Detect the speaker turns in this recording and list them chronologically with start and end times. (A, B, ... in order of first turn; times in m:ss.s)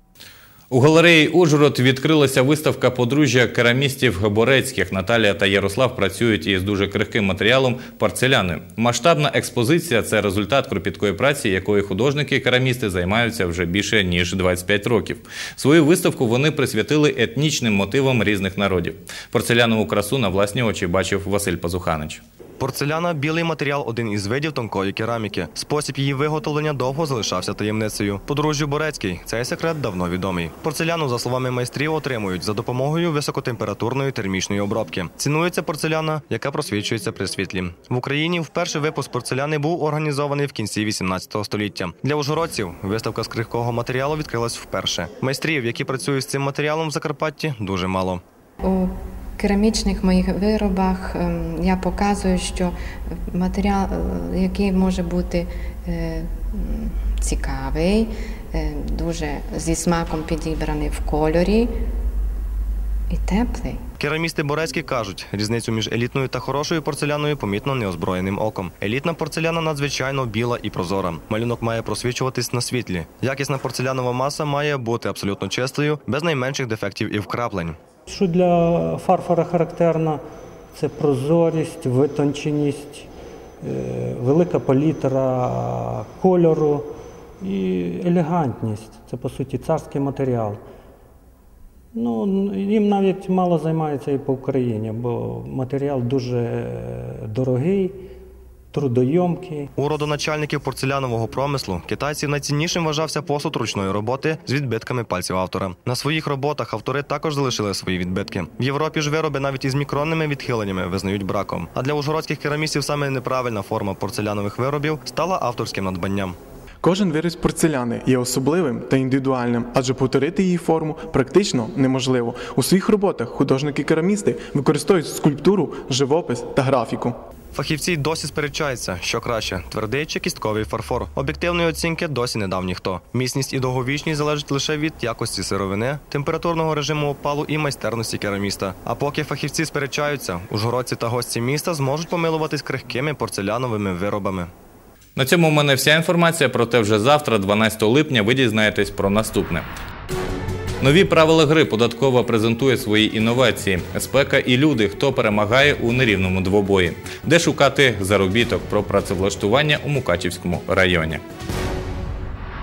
0:00.7-0:22.2 A
0:22.6-0:48.2 B
0:48.6-1:01.8 C
1:03.1-1:03.8 C
1:04.0-1:17.8 B
1:18.1-1:23.1 D
1:23.6-1:30.6 D
1:31.9-1:38.0 D
1:38.7-1:39.7 D
1:39.8-1:56.4 B
1:56.8-2:07.2 E
2:07.5-2:24.5 B
2:25.2-2:29.7 A
2:30.8-2:41.2 A